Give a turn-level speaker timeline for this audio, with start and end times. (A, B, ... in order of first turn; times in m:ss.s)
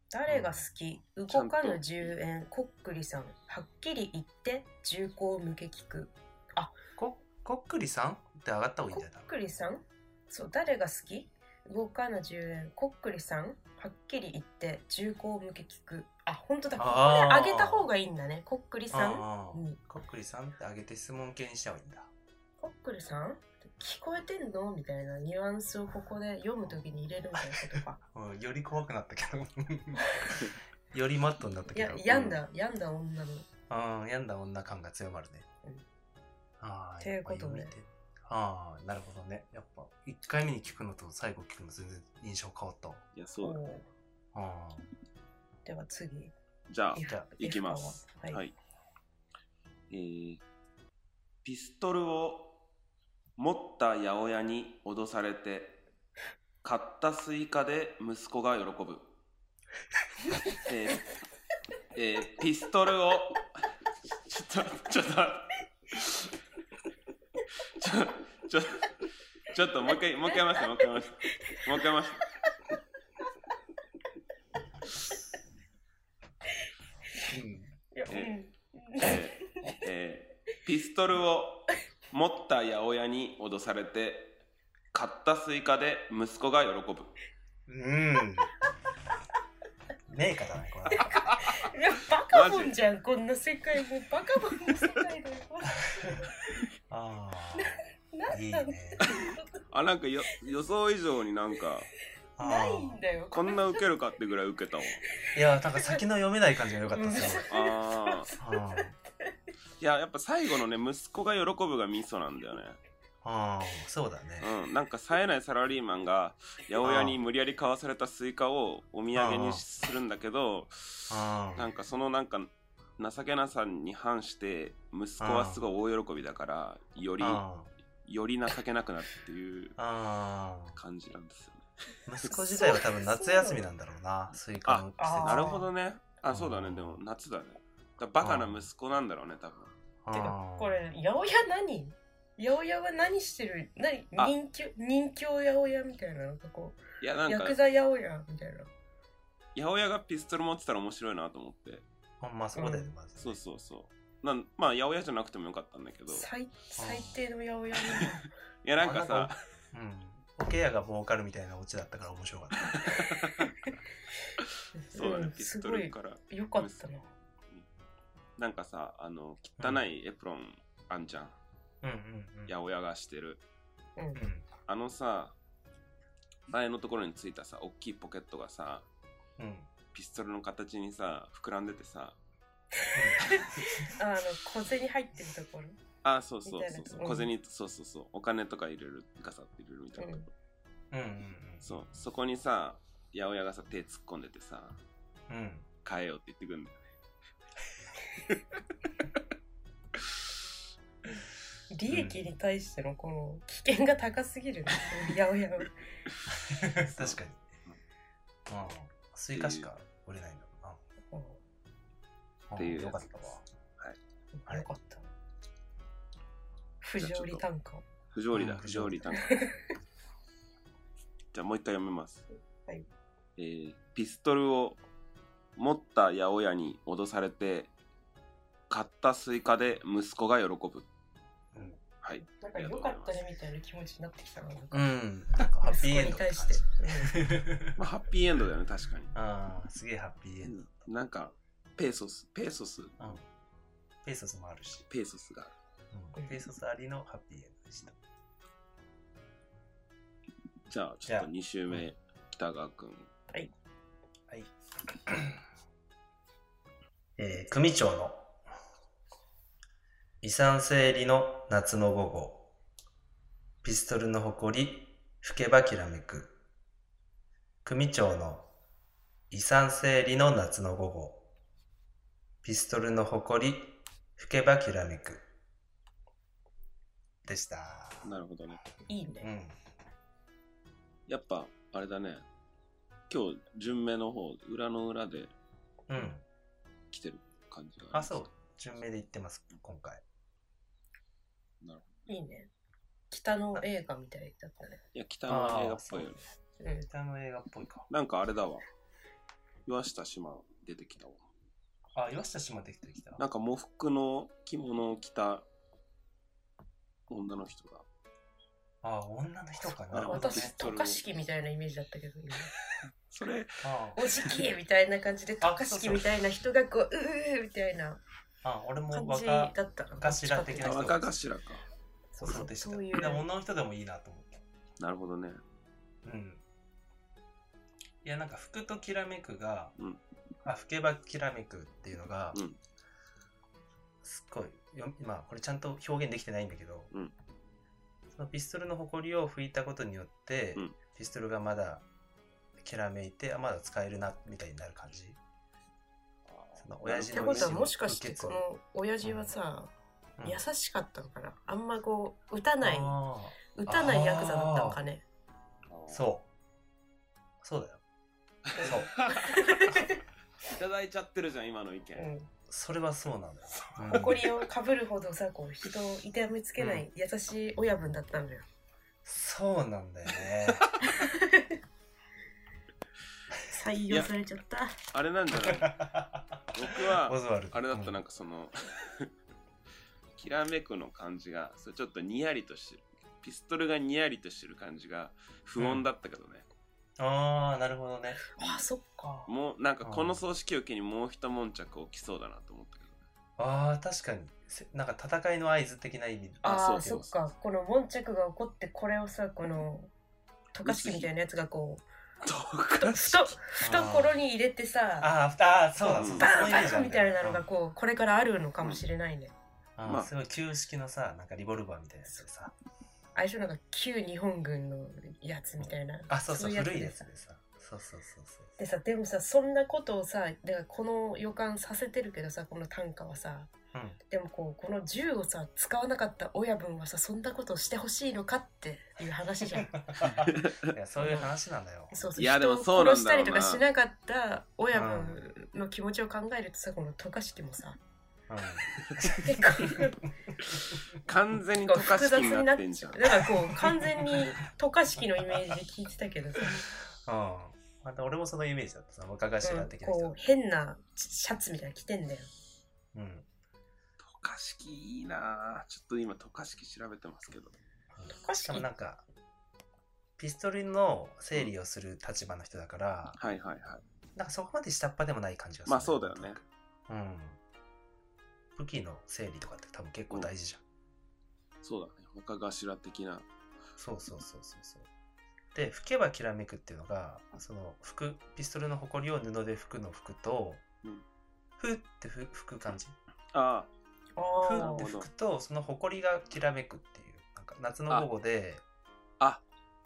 0:00.1-0:06.8 A
0:00.3-0:00.7 B
0:01.3-0:02.1 C
0:07.0-0:09.3 B
0:08.9-0:19.8 A
0:16.8-0:17.9 B
0:18.9-0:22.1 B
0:22.6-0:28.0 A
0:27.4-0:32.4 B
0:31.7-0:33.5 A
0:33.7-0:35.5 B
0:36.6-0:43.0 B
0:37.0-0:37.7 A
0:43.1-0:43.6 C
0:43.4-0:43.9 A
0:44.3-0:44.9 B
0:45.6-0:46.3 A
0:46.7-0:48.6 C
0:47.0-0:48.4 A
0:49.9-0:50.4 C
0:51.4-0:52.6 C
0:53.4-0:55.8 C
0:56.6-0:59.1 C
1:00.6-1:01.0 C
1:02.0-1:03.5 C
1:04.1-1:06.3 C
1:07.8-1:08.9 C
1:09.5-1:12.3 C
1:10.3-1:10.8 A
1:11.5-1:11.8 A
1:17.3-1:17.7 B
1:18.0-1:19.8 A
1:18.1-1:18.4 C
1:19.0-1:24.4 C
1:24.9-1:27.1 C
1:27.7-1:28.5 B
1:30.1-1:31.2 B
1:31.0-1:31.7 C
1:31.0-1:36.4 A
1:32.3-1:32.7 C
1:36.9-1:39.1 B
1:37.6-1:39.6 A
1:39.0-1:41.9 C
1:42.4-1:43.0 B
1:42.4-1:43.8 A
1:43.3-1:45.0 C
1:45.2-1:46.0 A
1:45.3-1:47.5 B
1:46.9-1:49.3 A
1:47.5-1:48.3 C
1:48.4-1:49.0 B
1:49.8-1:52.8 C
1:53.2-1:54.5 B
1:54.4-2:07.4 C
1:56.8-1:57.2 B
1:59.2-1:59.6 B
2:01.1-2:01.7 B
2:05.2-2:05.6 B
2:07.2-2:07.7 B
2:08.0-2:09.8 C
2:09.8-2:10.8 B
2:10.7-2:11.7 C
2:12.1-2:15.6 B
2:12.3-2:13.7 A
2:14.6-2:19.7 C
2:15.0-2:15.7 A
2:16.3-2:17.0 B
2:18.2-2:18.7 B
2:20.0-2:20.9 B
2:20.1-2:28.7 A
2:27.0-2:27.6 C
2:29.6-2:31.8 C
2:32.2-2:33.4 B
2:32.6-2:32.9 A
2:33.2-2:36.3 C
2:36.1-2:38.3 A
2:36.8-2:37.2 B
2:38.6-2:39.4 C
2:38.8-2:43.1 B
2:42.7-2:43.5 C
2:44.4-2:46.8 C
2:44.8-2:47.1 A
2:48.4-2:51.4 C
2:51.8-2:52.5 B
2:52.5-2:53.4 C
2:54.0-2:54.2 A
2:54.2-2:54.4 B
2:54.7-2:55.4 C
2:56.5-2:58.8 C
2:59.4-2:59.7 B
2:59.9-3:02.2 C
3:02.8-3:05.8 A
3:03.0-3:04.0 B
3:06.0-3:10.3 C
3:06.5-3:07.3 A
3:10.0-3:10.3 A
3:10.9-3:11.9 B
3:11.6-3:14.8 C
3:15.3-3:15.7 B
3:15.8-3:16.8 C
3:21.7-3:25.8 A
3:21.9-3:22.2 B
3:26.3-3:27.4 B
3:26.7-3:27.8 C
3:28.5-3:30.8 B
3:29.3-3:29.7 C
3:31.1-3:31.4 A
3:32.5-3:33.4 B
3:32.6-3:33.1 C
3:34.3-3:35.1 A
3:36.8-3:37.8 A
3:37.0-3:37.4 C
3:38.1-3:39.5 C
3:38.3-3:39.1 B
3:39.1-3:39.7 A
3:41.3-3:42.2 C
3:43.4-3:44.8 C
3:45.6-3:47.7 C
3:48.7-3:50.9 C
3:52.0-3:53.2 C
3:52.3-3:55.0 A
3:54.7-3:57.8 B
3:55.6-3:57.2 A
3:57.8-3:59.2 C
3:59.1-4:00.9 B
4:00.4-4:03.0 C
4:03.0-4:03.2 B
4:04.0-4:04.9 B
4:04.9-4:05.6 C
4:05.9-4:08.0 B
4:10.7-4:13.1 C
4:11.1-4:11.8 B
4:15.1-4:15.4 B
4:17.2-4:18.3 B
4:20.2-4:22.5 B
4:23.6-4:26.3 B
4:27.6-4:28.5 B
4:29.3-4:31.2 B
4:32.4-4:35.2 B
4:37.2-4:38.1 B
4:38.0-4:38.6 C
4:38.9-4:39.3 A
4:39.2-4:39.6 B
4:41.1-4:42.2 C
4:43.1-4:45.3 C
4:45.9-4:46.2 B
4:46.9-4:48.2 C
4:47.9-4:50.0 B
4:51.6-4:52.1 C
4:52.1-4:52.5 A
4:53.1-4:54.8 A
4:54.9-4:56.2 C
4:55.3-4:56.2 B
4:56.6-4:56.9 A
4:56.9-4:57.9 B
4:57.9-4:58.6 C
4:59.7-5:01.2 C
5:01.9-5:03.2 B
5:03.2-5:05.4 C
5:07.1-5:07.8 C
5:08.8-5:10.6 B
5:09.9-5:11.0 C
5:10.0-5:12.5 A
5:13.1-5:13.7 C
5:13.6-5:14.0 B
5:14.0-5:18.0 A
5:15.4-5:16.2 B
5:18.4-5:21.1 B
5:18.9-5:21.1 A
5:20.6-5:21.6 C
5:22.1-5:23.2 A
5:22.2-5:24.4 B
5:24.8-5:25.4 C
5:26.0-5:26.4 B
5:28.0-5:29.8 B
5:30.4-5:32.4 B
5:34.0-5:36.9 B
5:38.1-5:41.8 B
5:42.6-5:45.2 B
5:46.3-5:47.7 C
5:46.6-5:48.4 B
5:47.1-5:53.0 A
5:49.0-5:49.3 B
5:50.2-5:50.4 B
5:52.6-5:54.8 B
5:53.5-5:55.0 A
5:55.7-5:56.1 C
5:55.9-5:56.3 B
5:57.4-5:57.8 B
5:58.5-5:59.7 C
5:58.6-6:00.0 A
5:58.6-5:58.9 B
6:00.4-6:02.1 C
6:02.0-6:02.3 A
6:02.5-6:04.3 B
6:03.5-6:04.4 C
6:03.9-6:08.4 A
6:06.6-6:06.9 B
6:09.0-6:10.7 B
6:10.4-6:11.0 C
6:10.8-6:11.6 A
6:13.5-6:14.8 A
6:14.9-6:15.8 C
6:15.4-6:18.0 B
6:16.5-6:19.1 C
6:20.2-6:26.4 C
6:25.6-6:25.8 B
6:27.0-6:28.3 B
6:28.3-6:29.3 A
6:29.3-6:33.0 C
6:29.8-6:30.2 B
6:33.4-6:36.5 B
6:36.4-6:37.1 C
6:36.4-6:39.9 A
6:40.5-6:41.8 A
6:40.6-6:41.1 C
6:42.2-6:43.4 C
6:42.8-6:45.1 A
6:43.6-6:44.2 B
6:45.0-6:47.5 B
6:45.8-6:46.4 C
6:46.0-6:49.3 A
6:49.8-6:52.5 B
6:53.2-6:57.1 A
6:56.1-6:58.6 B
6:58.6-7:03.5 A
7:04.1-7:09.8 A
7:09.7-7:12.3 B
7:10.0-7:10.7 C
7:11.0-7:11.3 A
7:11.9-7:17.8 A
7:12.2-7:13.6 C
7:14.7-7:15.2 B
7:18.3-7:19.9 B
7:19.2-7:20.1 A
7:21.0-7:23.6 C
7:21.7-7:26.6 A
7:27.0-7:30.2 B
7:29.4-7:32.3 A
7:32.9-7:33.3 B
7:34.0-7:37.6 C
7:38.0-7:39.0 B
7:38.2-7:38.7 A
7:40.2-7:43.2 B
7:43.2-7:43.8 C
7:44.2-7:47.4 B
7:45.7-7:46.4 C
7:48.6-7:50.6 B
7:51.6-7:53.3 C
7:53.8-7:54.9 B
7:55.5-8:00.6 B
8:01.6-8:03.0 B
8:03.3-8:03.7 C
8:04.2-8:04.9 A
8:04.4-8:08.6 B
8:04.6-8:05.1 C